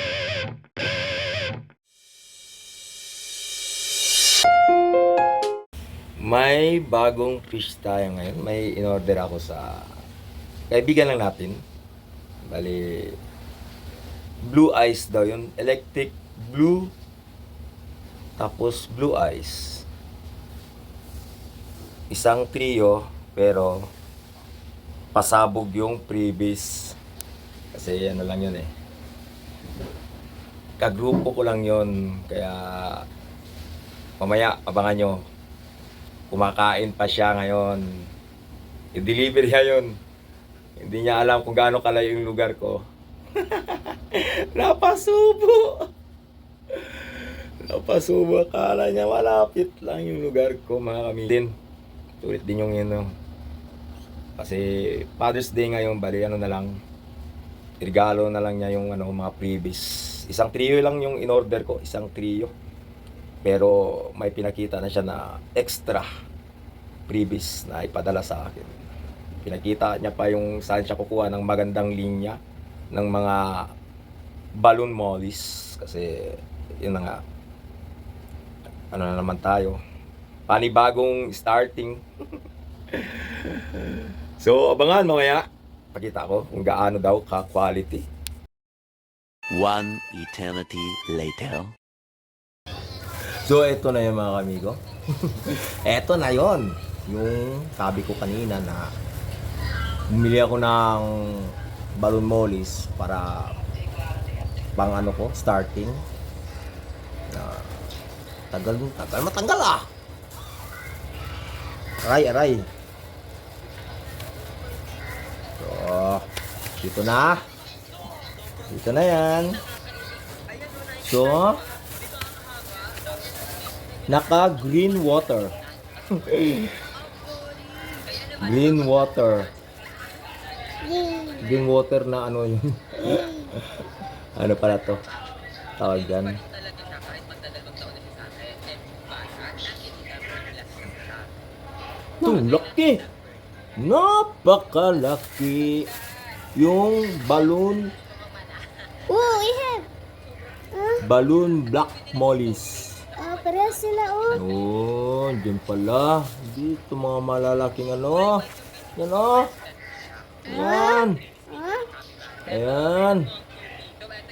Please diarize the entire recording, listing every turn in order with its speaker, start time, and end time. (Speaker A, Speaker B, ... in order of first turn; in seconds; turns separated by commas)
Speaker A: 6.2-9.8, Speaker A: 10.7-11.6, Speaker A: 12.4-13.1, Speaker A: 14.4-16.9, Speaker A: 18.4-19.8, Speaker A: 22.1-23.8, Speaker A: 25.1-26.9, Speaker A: 27.7-28.7, Speaker A: 30.8-33.0, Speaker A: 34.2-35.2, Speaker A: 36.3-37.8, Speaker A: 38.9-39.9, Speaker A: 40.8-42.8, Speaker A: 43.4-45.8, Speaker A: 47.6-51.5, Speaker A: 52.2-53.1, Speaker A: 54.4-56.8, Speaker A: 57.8-62.5, Speaker A: 63.4-66.1, Speaker A: 67.1-68.8, Speaker A: 69.4-72.4, Speaker A: 72.9-73.7, Speaker A: 74.5-77.2, Speaker A: 78.9-79.8, Speaker A: 80.5-82.0, Speaker A: 82.9-88.0, Speaker B: 89.5-91.7, Speaker A: 93.4-98.9, Speaker A: 100.1-103.6, Speaker A: 104.8-106.0, Speaker A: 107.3-107.7, Speaker A: 108.5-109.9, Speaker A: 112.0-112.7, Speaker A: 115.6-116.2, Speaker A: 116.8-117.4, Speaker A: 118.7-119.6, Speaker A: 121.0-121.6, Speaker A: 124.1-125.5, Speaker A: 126.1-126.7, Speaker A: 128.4-129.5, Speaker C: 130.8-131.4, Speaker A: 131.4-133.6, Speaker C: 133.0-133.5, Speaker A: 134.3-135.0, Speaker A: 135.8-136.4, Speaker A: 142.2-143.0, Speaker A: 143.8-145.9, Speaker A: 146.6-147.9, Speaker C: 149.1-149.9, Speaker C: 150.7-151.0, Speaker A: 151.0-153.0, Speaker C: 153.2-154.4, Speaker A: 154.3-159.5, Speaker A: 160.5-161.2, Speaker C: 160.5-161.9, Speaker A: 162.4-163.3